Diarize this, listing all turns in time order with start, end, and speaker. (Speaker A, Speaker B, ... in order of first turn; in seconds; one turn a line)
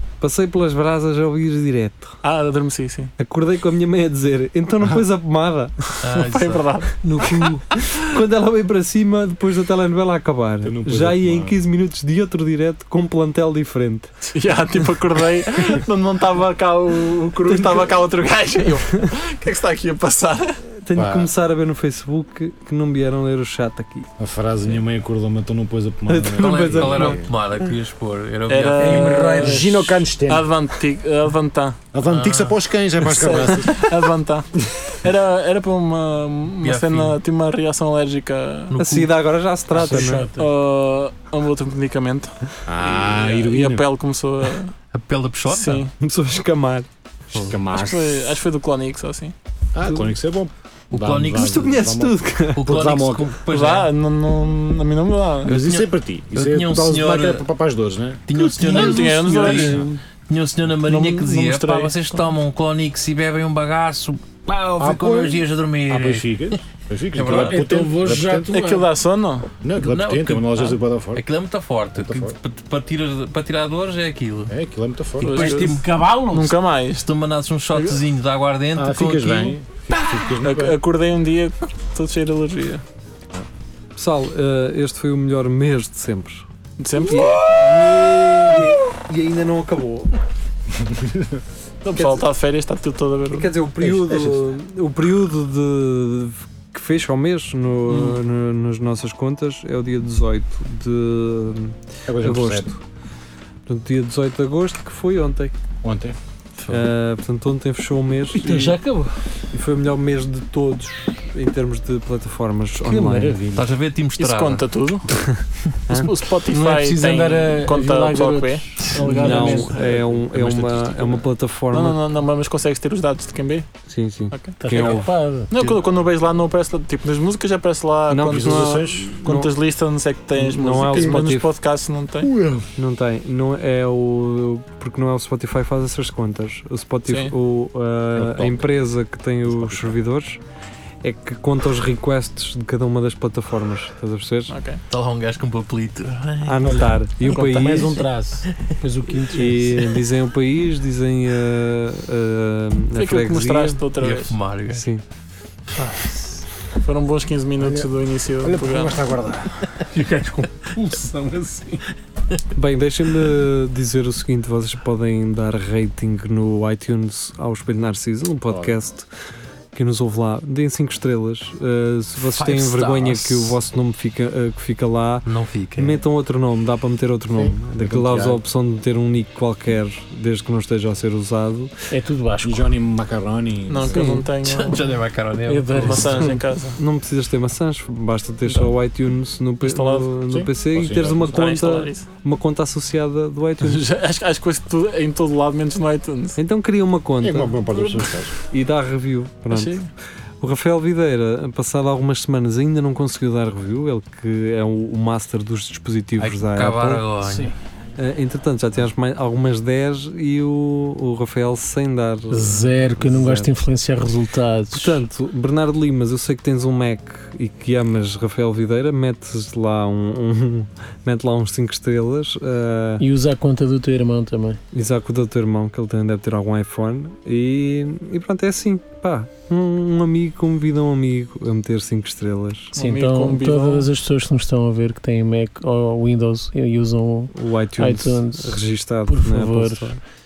Speaker A: 0.2-2.2
Speaker B: 2.2-3.1
Speaker A: 3.2-5.7
Speaker C: 6.0-7.5
Speaker B: 6.0-7.5
Speaker A: 7.1-14.3
Speaker D: 10.6-11.6
Speaker B: 14.3-20.6
Speaker A: 17.5-18.0
Speaker A: 20.8-24.1
Speaker D: 20.9-21.3
Speaker D: 24.2-27.3
Speaker A: 26.1-27.3
Speaker C: 26.4-29.2
Speaker B: 28.5-31.8
Speaker E: 28.8-29.7
Speaker D: 28.8-30.5
Speaker D: 31.9-33.9
Speaker C: 32.0-32.6
Speaker B: 33.0-38.7
Speaker C: 36.6-37.2
Speaker C: 38.7-39.1
Speaker A: 38.8-40.2
Speaker E: 39.8-40.5
Speaker B: 39.8-42.3
Speaker D: 42.6-43.9
Speaker B: 42.8-44.7
Speaker C: 44.9-45.9
Speaker B: 45.5-45.9
Speaker A: 46.0-46.9
Speaker D: 47.5-48.3
Speaker B: 47.7-49.3
Speaker D: 49.7-53.4
Speaker A: 49.8-50.1
Speaker C: 50.9-51.7
Speaker A: 51.3-52.6
Speaker C: 52.5-53.9
Speaker B: 53.5-55.5
Speaker D: 55.4-59.8
Speaker C: 55.5-57.4
Speaker C: 58.3-66.6
Speaker B: 58.4-59.9
Speaker B: 60.9-61.9
Speaker D: 64.8-68.5
Speaker C: 67.1-67.7
Speaker E: 67.3-68.9
Speaker B: 68.5-69.5
Speaker D: 69.6-71.2
Speaker C: 69.8-74.5
Speaker D: 72.0-72.4
Speaker D: 74.5-75.4
Speaker C: 75.2-75.8
Speaker B: 75.2-77.1
Speaker E: 75.3-76.6
Speaker C: 77.0-79.6
Speaker B: 77.7-78.0
Speaker D: 78.8-80.8
Speaker B: 80.4-82.8
Speaker A: 84.0-90.1
Speaker B: 86.8-87.4
Speaker D: 90.7-91.4
Speaker B: 91.8-93.5
Speaker A: 91.9-92.2
Speaker A: 93.3-102.8
Speaker D: 93.8-94.4
Speaker B: 97.9-98.2
Speaker D: 102.1-102.7
Speaker A: 103.7-105.5
Speaker D: 105.8-106.2
Speaker A: 106.7-108.8
Speaker E: 108.3-109.2
Speaker A: 109.5-113.4
Speaker E: 112.9-113.5
Speaker D: 113.1-113.7
Speaker C: 113.5-114.7
Speaker B: 114.2-115.2
Speaker B: 115.9-119.5
Speaker E: 116.5-120.0
Speaker A: 119.0-122.0
Speaker D: 119.4-121.2
Speaker B: 121.7-123.7
Speaker A: 123.9-125.1
Speaker B: 124.3-132.3
Speaker E: 124.6-125.5
Speaker A: 128.1-129.5
Speaker D: 128.2-129.2
Speaker A: 130.3-131.5
Speaker D: 130.9-131.3
Speaker D: 132.2-132.7
Speaker A: 132.8-140.4
Speaker B: 137.1-137.3
Speaker D: 138.1-138.7
Speaker D: 139.5-140.0
Speaker A: 141.0-144.5
Speaker B: 144.5-144.8
Speaker C: 144.9-147.0
Speaker A: 146.4-148.1
Speaker E: 147.2-149.9
Speaker C: 148.5-148.7
Speaker A: 149.3-153.8
Speaker B: 152.9-154.4
Speaker C: 154.0-154.8
Speaker A: 154.7-155.0
Speaker E: 155.9-156.4
Speaker B: 156.8-159.0
Speaker D: 157.6-157.9
Speaker D: 158.4-159.8
Speaker E: 159.9-161.8
Speaker A: 162.5-169.1
Speaker D: 168.5-168.8
Speaker A: 169.7-181.7
Speaker C: 172.3-173.6
Speaker C: 175.2-176.0
Speaker D: 177.3-178.4
Speaker E: 181.9-182.7
Speaker D: 182.4-184.1
Speaker B: 183.7-184.9
Speaker A: 183.9-184.3
Speaker C: 184.4-186.3
Speaker E: 185.4-186.3
Speaker B: 185.8-186.8
Speaker A: 186.1-193.8
Speaker B: 189.6-190.1
Speaker D: 190.3-191.6
Speaker B: 191.3-192.1
Speaker B: 193.6-196.4
Speaker A: 196.4-199.8
Speaker D: 197.2-198.3
Speaker B: 199.5-199.9
Speaker A: 200.4-207.1
Speaker C: 206.2-207.5
Speaker E: 207.2-207.5
Speaker A: 208.0-213.6
Speaker E: 212.3-215.0
Speaker A: 214.7-223.0
Speaker E: 223.0-224.6
Speaker A: 224.7-232.7
Speaker E: 232.7-239.9
Speaker B: 232.8-233.9
Speaker A: 237.3-240.0